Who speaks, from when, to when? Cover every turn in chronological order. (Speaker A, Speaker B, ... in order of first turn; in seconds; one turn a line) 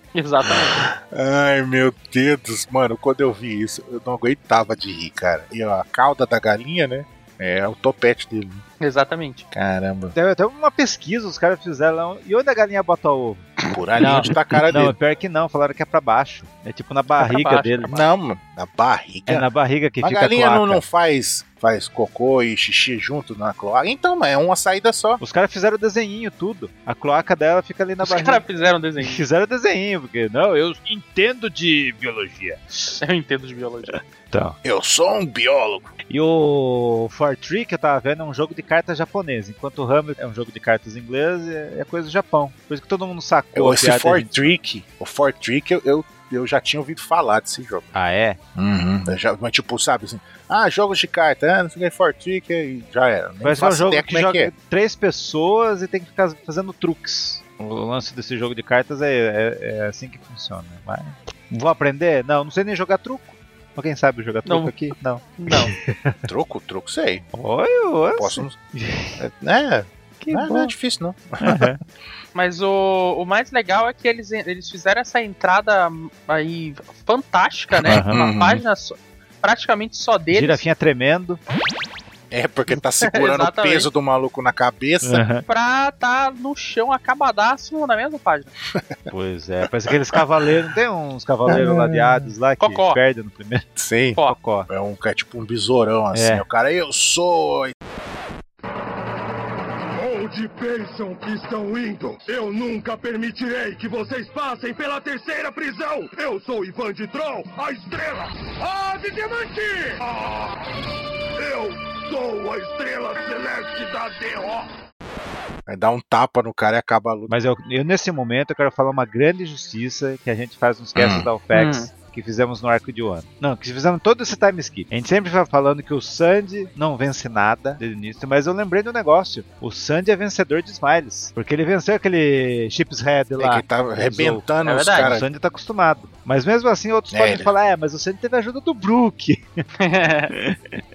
Speaker A: 0.1-0.9
Speaker B: 0.5-8.6
Speaker A: 8.8-9.4
Speaker B: 9.5-10.2
Speaker C: 10.2-17.9
Speaker B: 13.7-14.9
Speaker A: 17.2-18.1
Speaker B: 17.9-19.5
Speaker C: 19.3-20.8
Speaker B: 20.0-25.2
Speaker C: 25.2-28.4
Speaker A: 28.0-29.2
Speaker C: 29.0-33.0
Speaker A: 33.0-34.0
Speaker C: 33.9-34.6
Speaker B: 34.6-35.9
Speaker C: 36.1-44.5
Speaker B: 43.5-47.9
Speaker C: 47.9-48.4
Speaker B: 48.6-54.5
Speaker C: 53.4-66.2
Speaker A: 64.5-64.8
Speaker A: 65.4-65.7
Speaker B: 66.3-67.3
Speaker C: 67.3-69.2
Speaker B: 68.2-68.6
Speaker B: 69.2-71.7
Speaker C: 70.2-70.7
Speaker C: 71.4-71.8
Speaker A: 72.3-80.6
Speaker B: 77.9-78.6
Speaker C: 77.9-78.2
Speaker C: 80.3-81.4
Speaker B: 82.3-85.2
Speaker A: 82.8-83.9
Speaker C: 85.0-85.5
Speaker A: 85.5-88.5
Speaker B: 88.8-89.1
Speaker C: 89.1-93.7
Speaker B: 91.5-92.3
Speaker A: 92.6-93.0
Speaker B: 93.8-94.2
Speaker C: 94.2-94.7
Speaker B: 94.7-97.7
Speaker C: 96.1-96.5
Speaker D: 99.9-110.6
Speaker D: 111.4-114.7
Speaker B: 115.7-117.3
Speaker C: 117.3-139.6
Speaker B: 121.0-121.3
Speaker A: 121.5-121.9
Speaker B: 133.4-135.3
Speaker A: 134.6-135.1
Speaker B: 137.1-137.5
Speaker A: 139.8-140.3
Speaker C: 140.3-140.8